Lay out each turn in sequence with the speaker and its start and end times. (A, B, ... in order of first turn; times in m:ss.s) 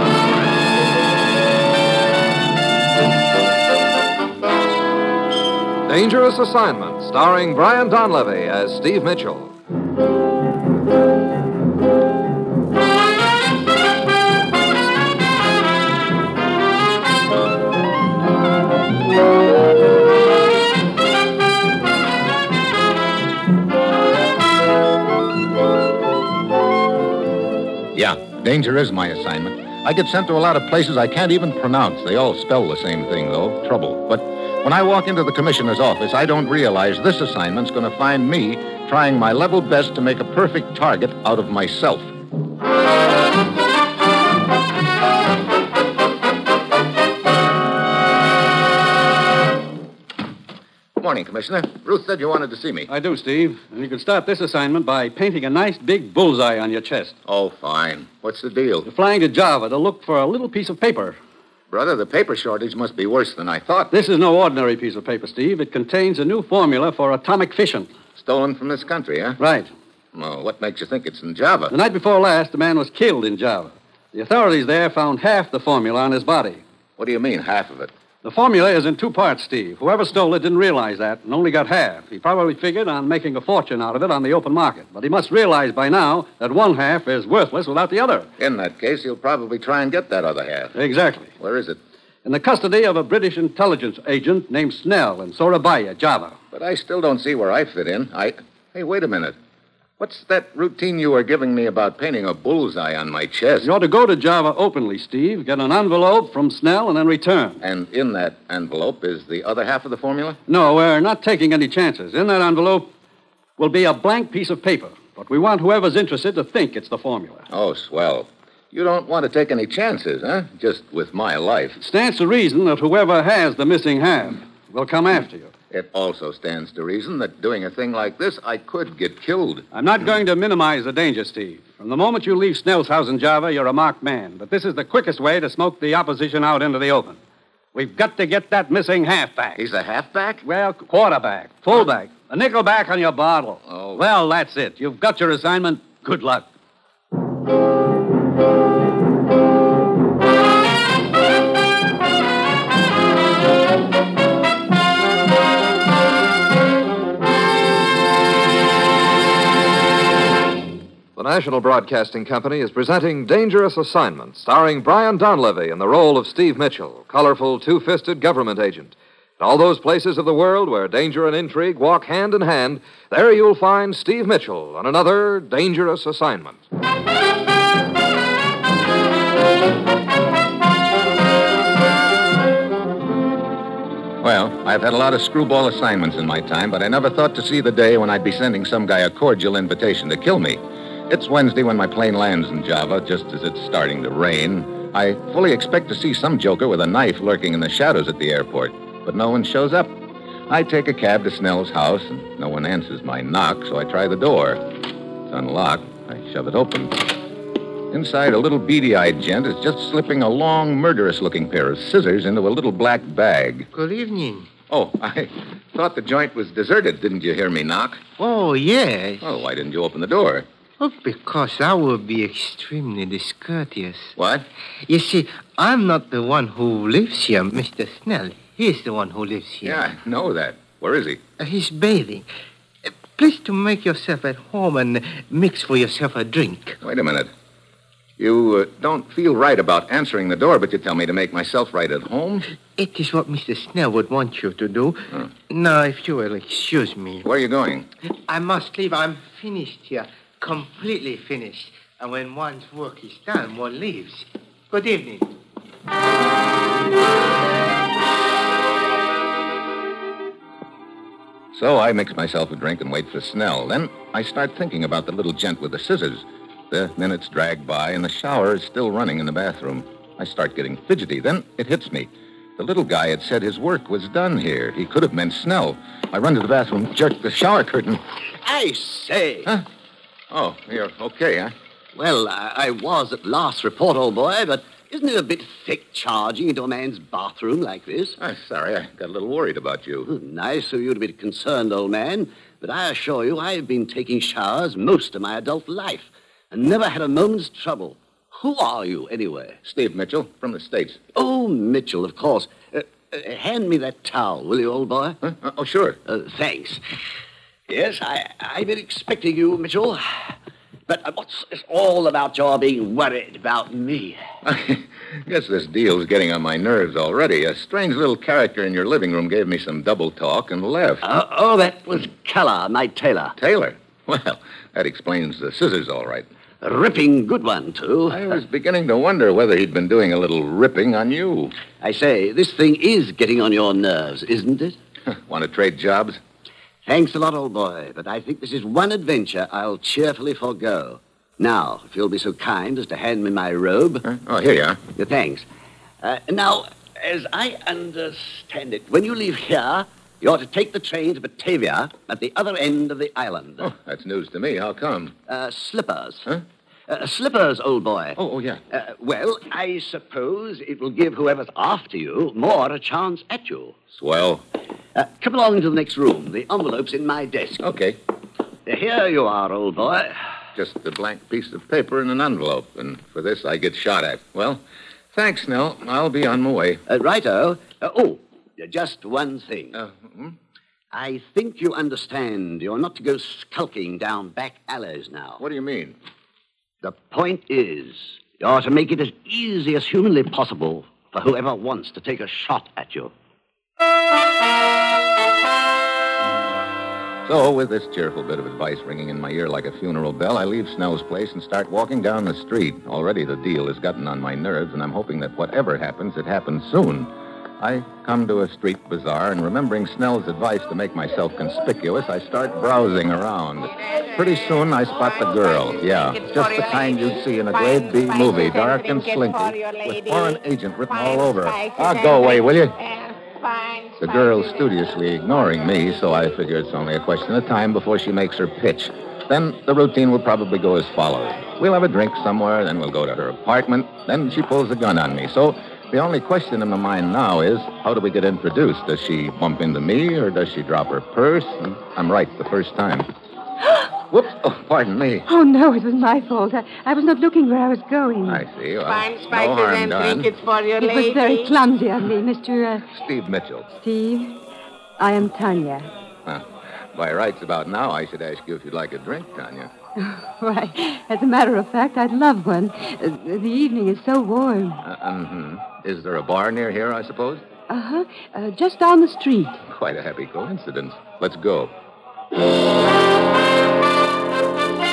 0:05.9-0:09.6 A
0:27.9-0:42.1 B
0:51.0-0:52.9 B
0:52.9-0:57.2 C
0:57.2-0:58.9 B
0:58.8-1:01.2 C
1:01.7-1:04.0 B
1:03.9-1:07.9 C
1:08.2-1:09.4 B
1:09.4-1:09.7 C
1:10.1-1:11.7 B
1:11.7-1:16.6 C
1:17.0-1:17.9 B
1:18.2-1:28.3 C
1:28.4-1:30.8 B
1:30.8-1:31.3 C
1:31.4-1:31.8 B
1:32.2-1:36.4 C
1:36.5-1:39.4 B
1:40.0-1:43.7 B
1:43.6-1:47.6 C
1:47.6-1:50.4 B
1:50.5-1:52.9 C
1:53.6-1:57.5 C
1:57.5-2:01.8 B
2:01.8-2:05.5 C
2:05.7-2:09.7 B
2:09.7-2:17.2 C
2:17.7-2:19.6 C
2:19.6-2:20.4 B
2:20.4-2:26.5 C
2:23.7-2:24.0 B
2:41.2-2:56.6 A
3:04.2-3:20.0 B
3:20.5-3:24.6 B
3:25.3-3:27.2 B
3:27.9-3:33.7 B
3:33.7-3:34.5 D
3:34.7-3:38.0 B
3:38.2-3:39.3 D
3:39.2-3:40.5 B
3:40.8-3:44.2 D
3:44.2-3:44.5 B
3:44.9-3:49.9 D
3:49.6-3:51.2 B
3:51.4-3:52.3 D
3:52.8-3:56.8 D
3:56.8-3:57.3 B
3:58.2-4:02.5 B
4:02.8-4:07.2 D
4:07.2-4:07.9 B
4:08.3-4:15.3 D
4:21.5-4:38.0 B
4:38.4-4:39.5 E
4:40.3-4:41.6 B
4:42.0-4:48.2 E
4:48.2-4:50.1 B
4:50.0-4:59.6 E
4:59.6-5:01.0 B
5:01.2-5:05.2 E
5:05.2-5:06.0 B
5:06.1-5:06.8 E
5:07.7-5:10.3 E
5:10.9-5:14.2 E
5:14.4-5:21.0 B
5:21.0-5:23.4 E
5:23.4-5:26.3 B
5:26.6-5:28.4 E
5:28.1-5:31.6 B
5:31.8-5:34.8 E
5:35.1-5:36.2 B
5:36.8-5:44.1 E
5:44.0-5:44.8 B
5:45.0-5:45.4 E
5:46.0-5:53.7 E
5:53.6-5:55.2 B
5:55.3-5:56.3 E
5:56.9-5:58.2 E
5:58.2-5:58.6 B
5:58.7-6:03.8 E
6:03.9-6:04.4 B
6:05.0-6:07.6 E
6:07.6-6:08.0 B
6:08.7-6:10.2 E
6:10.6-6:14.6 B
6:15.1-6:16.8 B
6:16.9-6:19.8 E
6:19.7-6:20.4 B
6:20.9-6:25.4 E
6:25.4-6:26.0 B
6:26.8-6:33.1 E
6:37.2-7:02.8 B
6:56.3-6:56.9 F
6:57.8-7:00.3 F
7:01.0-7:04.0 F
7:04.0-7:23.1 B
7:24.1-7:25.3 B
7:25.3-7:28.4 G
7:28.2-7:30.4 B
7:28.9-7:31.3 F
7:30.8-7:32.9 G
7:32.9-7:33.7 B
7:33.7-7:34.4 G
7:35.0-7:35.9 G
7:36.2-7:39.7 B
7:40.0-7:44.8 G
7:44.8-7:47.4 B
7:47.7-7:49.6 G
7:49.6-7:51.7 B